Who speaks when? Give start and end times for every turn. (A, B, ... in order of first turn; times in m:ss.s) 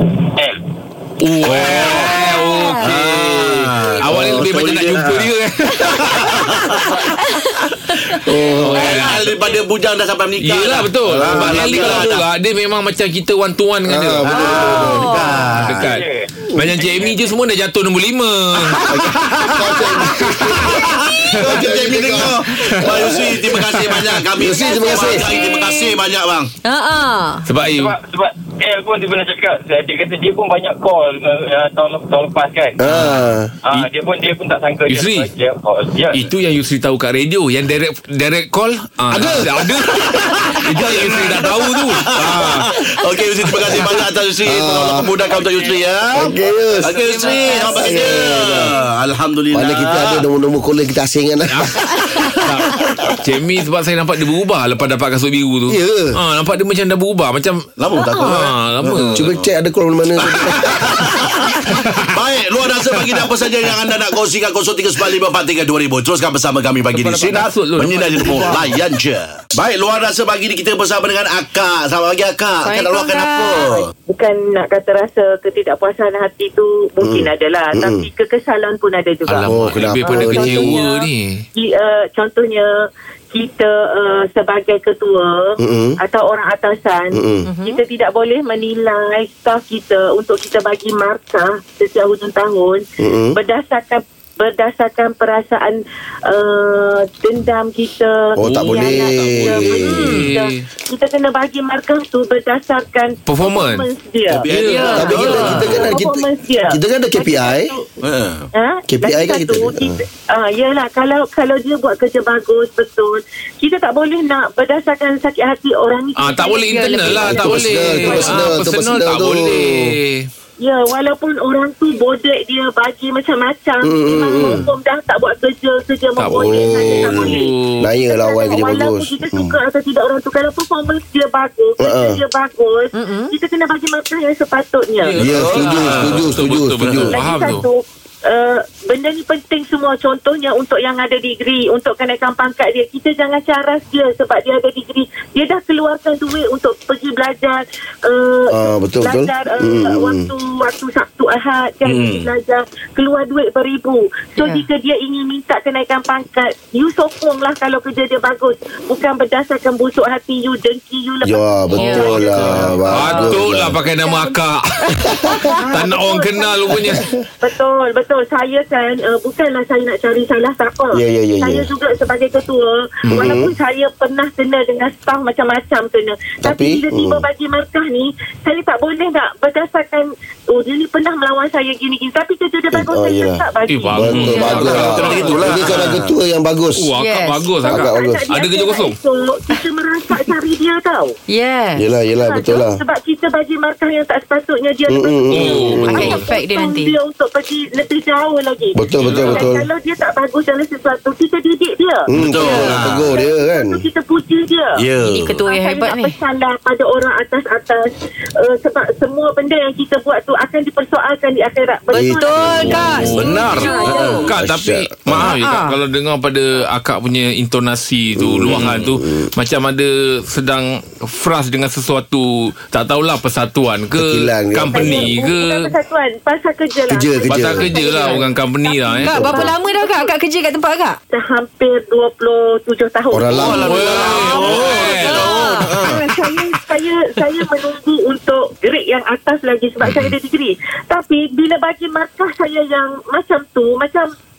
0:01.2-0:06.9 A
0:01.4-0:07.0 B
0:01.9-0:02.9 C
0:04.1-0:04.4 D
0:06.2-0:08.2 C
0:08.2-0:09.0 D
0:08.6-0:09.4 A
0:08.7-0:12.2 B
0:10.4-0:14.6 A
0:11.1-0:12.0 D
0:13.9-0:15.2 D
0:14.3-0:15.9 B
0:14.4-0:17.3 E
0:14.8-0:15.4 C
0:15.6-0:16.0 A
0:16.6-0:18.9 A
0:18.7-0:20.1 B
0:18.9-0:23.7 D
0:20.2-0:21.5 A
0:20.6-0:26.5 B
0:22.6-0:24.2 A
0:24.3-0:25.3 D
0:24.6-0:26.0 C
0:26.6-0:27.5 C
0:27.5-0:28.0 A
0:27.6-0:32.8 E
0:32.8-0:33.5 D
0:32.9-0:33.3 A
0:33.6-0:36.3 E
0:34.9-0:35.3 A
0:36.1-0:42.8 A
0:39.1-0:46.3 B
0:39.2-0:39.5 D
0:43.6-0:43.9 A
0:44.4-0:45.1 D
0:46.2-0:47.0 D
0:46.8-0:50.2 B
0:46.8-0:47.8 A
0:47.3-0:47.9 C
0:47.6-0:48.8 D
0:49.5-0:53.0 D
0:51.5-0:59.3 A
0:55.7-0:56.2 D
0:57.8-0:59.5 B
0:58.0-0:58.3 C
0:59.1-1:00.9 D
1:00.2-1:13.9 B
1:06.9-1:08.8 A
1:12.6-1:13.8 C
1:14.1-1:22.7 F
1:17.0-1:18.0 D
1:19.3-1:21.4 A
1:19.5-1:20.8 D
1:23.3-1:47.9 F
1:25.6-1:26.0 D
1:27.1-1:27.5 D
1:27.4-1:27.8 C
1:33.0-1:33.4 D
1:38.4-1:40.1 D
1:38.4-1:40.6 A
1:39.8-1:40.3 C
1:43.3-1:43.9 A
1:44.3-1:45.9 B
1:44.4-1:45.8 A
1:44.6-1:45.7 C
1:45.0-1:47.7 D
1:48.0-1:48.5 B
1:48.6-1:58.6 F
1:48.9-1:50.0 D
1:56.2-2:00.3 A
1:56.7-1:57.5 C
1:57.1-2:00.0 D
2:00.6-2:15.2 F
2:03.8-2:04.7 D
2:06.2-2:07.9 A
2:06.3-2:09.6 D
2:11.8-2:12.2 D
2:12.9-2:13.3 C
2:15.0-2:17.7 A
2:15.2-2:16.3 B
2:15.2-2:17.3 D
2:17.1-2:43.3 F
2:28.5-2:30.3 D
2:31.8-2:32.3 B
2:34.4-2:34.7 C
2:41.2-2:43.8 D
2:41.7-2:45.1 A
2:41.8-2:43.2 C
2:43.8-2:44.3 F
2:45.0-2:45.4 D
2:45.4-2:46.8 F
2:45.7-2:47.1 A
2:46.7-2:47.0 D
2:47.4-3:05.4 F
2:50.9-2:51.7 D
2:53.0-2:53.4 A
2:53.1-2:53.5 D
2:56.4-2:57.3 D
3:02.7-3:03.4 D
3:03.7-3:06.0 A
3:03.9-3:06.9 D
3:04.1-3:06.1 B
3:06.8-3:09.0 A
3:07.0-3:07.5 C
3:07.6-3:11.1 F
3:07.7-3:08.2 D
3:11.3-3:11.8 C
3:11.8-3:12.8 D
3:12.2-3:22.1 F
3:14.9-3:16.2 D
3:15.3-3:16.3 A
3:15.8-3:17.0 C
3:18.8-3:19.7 D
3:19.0-3:19.5 A
3:22.1-3:23.8 D
3:22.2-3:23.1 B
3:22.4-3:22.8 C
3:23.0-3:24.8 F
3:24.8-3:25.4 B
3:25.0-3:26.2 C
3:25.5-3:27.9 F
3:28.4-3:32.8 F
3:31.9-3:33.2 D
3:31.9-3:34.1 C
3:32.8-3:34.3 B
3:32.8-3:45.7 A
3:33.3-3:34.3 F
3:34.3-3:35.3 D
3:35.2-3:35.8 C
3:38.2-3:39.3 D
3:38.4-3:39.0 B
3:44.0-3:45.1 D
3:44.7-3:50.1 F
3:46.9-3:47.7 D
3:47.3-3:49.2 A
3:47.6-3:48.2 C
3:49.0-3:51.0 C
3:49.1-3:49.5 D
3:51.1-4:04.1 F
3:53.1-3:53.7 D
3:53.3-3:56.3 B
3:53.6-3:55.4 A
3:55.4-3:55.9 C
3:59.8-4:00.1 A